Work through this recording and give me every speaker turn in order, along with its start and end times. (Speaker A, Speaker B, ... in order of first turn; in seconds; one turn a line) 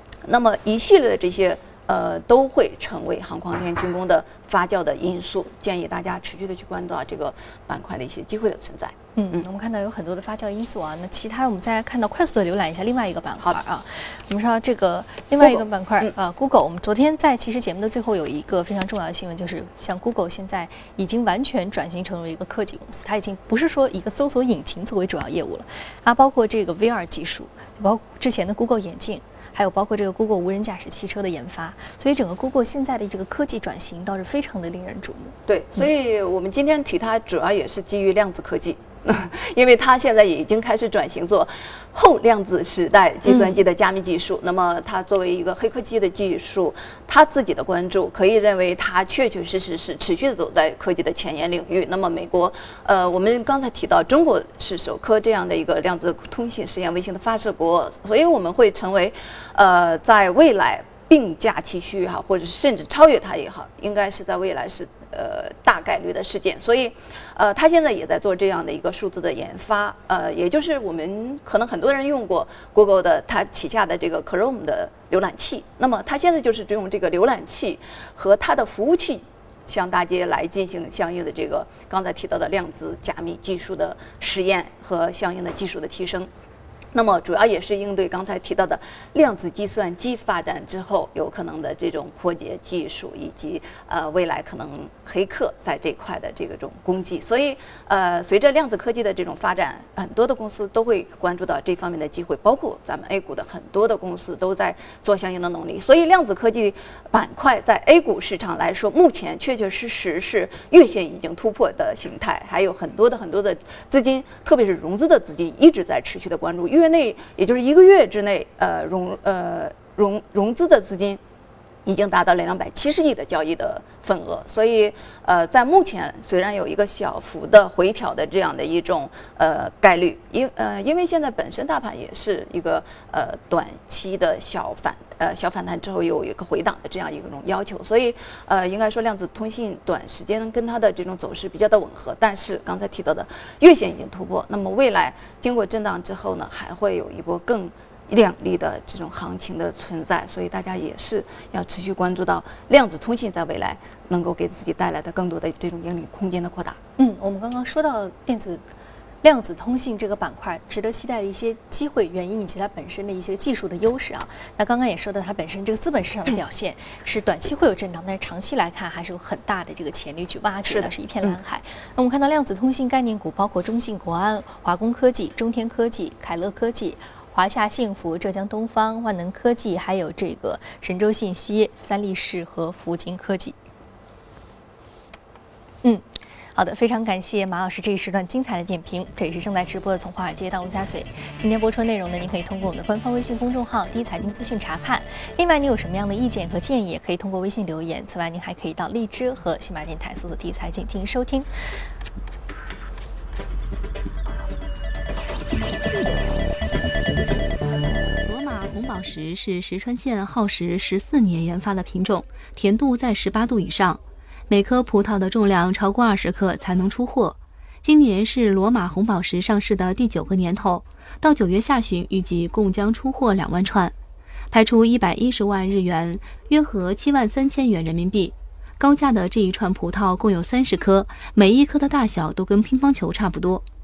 Speaker A: 0.2-9.4
Speaker B: 9.2-35.4
Speaker A: 15.4-16.1
Speaker A: 35.5-86.3
Speaker B: 43.3-43.6
Speaker A: 86.9-121.2
Speaker A: 121.8-156.8
Speaker B: 157.0-158.7
Speaker B: 159.2-183.6
Speaker A: 170.7-171.4
Speaker B: 185.8-201.5
Speaker C: 208.2-223.9
Speaker C: 224.5-233.7